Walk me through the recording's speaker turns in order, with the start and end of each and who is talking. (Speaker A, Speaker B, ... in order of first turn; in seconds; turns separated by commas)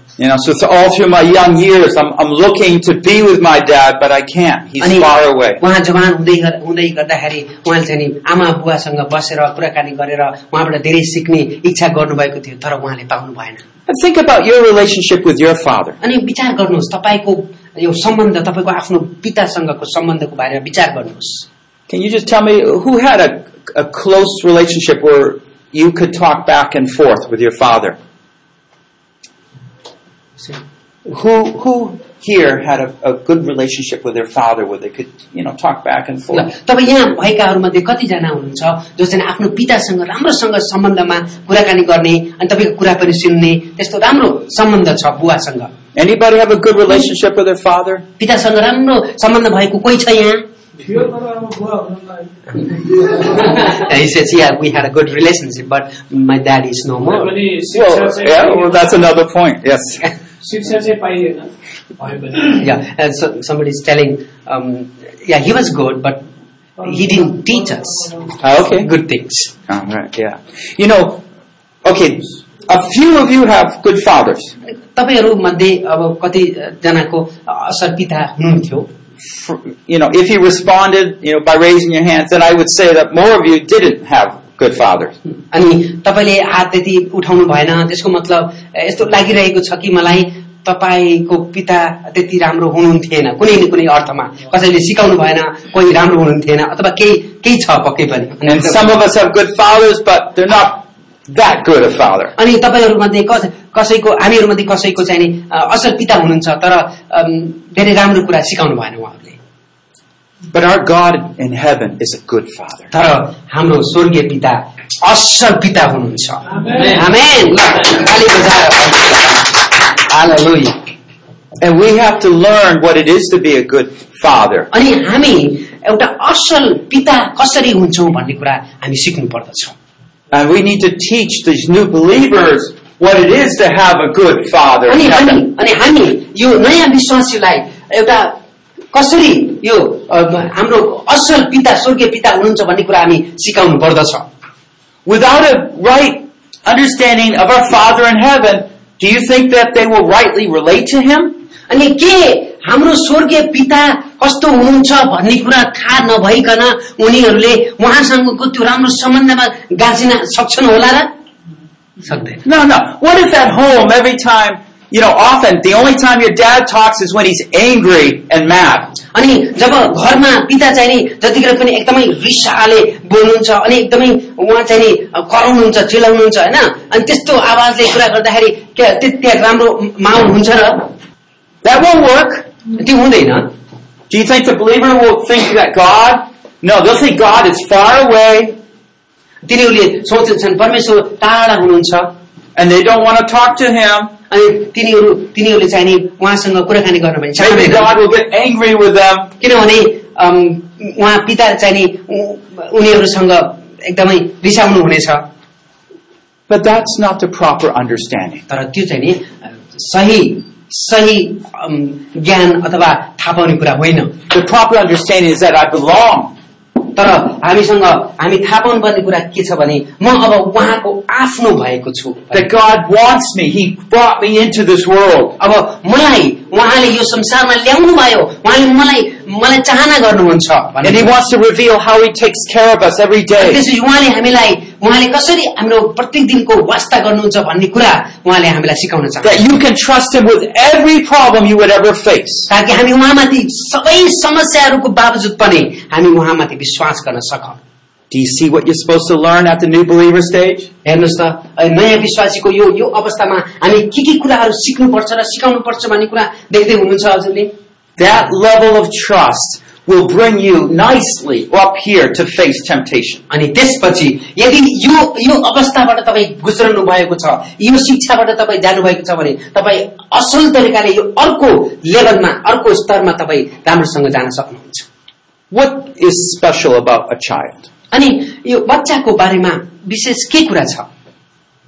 Speaker A: 0.2-5.6, Speaker B: 4.8-13.6, Speaker A: 13.9-16.0, Speaker B: 16.0-21.4, Speaker A: 21.9-28.0, Speaker A: 31.1-36.5, Speaker B: 36.3-45.7, Speaker A: 45.9-48.0, Speaker B: 48.2-50.4, Speaker C: 50.8-53.6, Speaker B: 53.1-57.3, Speaker C: 57.0-58.9, Speaker A: 57.7-60.0, Speaker C: 60.4-62.6, Speaker B: 62.5-66.2, Speaker C: 66.8-68.3, Speaker B: 66.8-68.1, Speaker A: 68.4-68.9, Speaker B: 68.7-69.5, Speaker A: 69.7-71.2, Speaker A: 71.8-74.5, Speaker B: 74.7-78.9, Speaker A: 79.2-85.1, Speaker B: 85.5-98.9, Speaker A: 98.4-102.3, Speaker B: 102.4-109.4, Speaker A: 110.5-112.9, Speaker B: 112.9-120.8, Speaker C: 116.5-117.0, Speaker A: 121.6-124.7, Speaker B: 124.7-129.7, Speaker A: 130.3-135.4, Speaker B: 134.9-138.4, Speaker B: 138.9-144.3, Speaker A: 145.1-151.3, Speaker B: 151.7-161.1, Speaker B: 162.0-162.4, Speaker A: 162.4-168.9, Speaker B: 169.1-180.9, Speaker A: 181.6-182.5, Speaker B: 182.7-183.5, Speaker A: 184.1-188.6, Speaker B: 189.4-192.1, Speaker A: 192.6-194.1, Speaker B: 194.3-197.9, Speaker A: 197.4-199.3, Speaker B: 199.4-205.2, Speaker A: 206.5-208.4, Speaker B: 208.5-214.1, Speaker A: 214.3-216.3, Speaker B: 216.8-222.5, Speaker A: 222.3-225.3, Speaker B: 225.4-231.1, Speaker A: 230.8-233.6, Speaker B: 233.4-239.4, Speaker A: 239.2-242.5, Speaker B: 242.5-247.6, Speaker A: 248.1-250.7, Speaker B: 250.8-257.5, Speaker A: 258.0-263.2, Speaker B: 263.3-274.9, Speaker A: 275.5-277.7, Speaker B: 277.9-280.9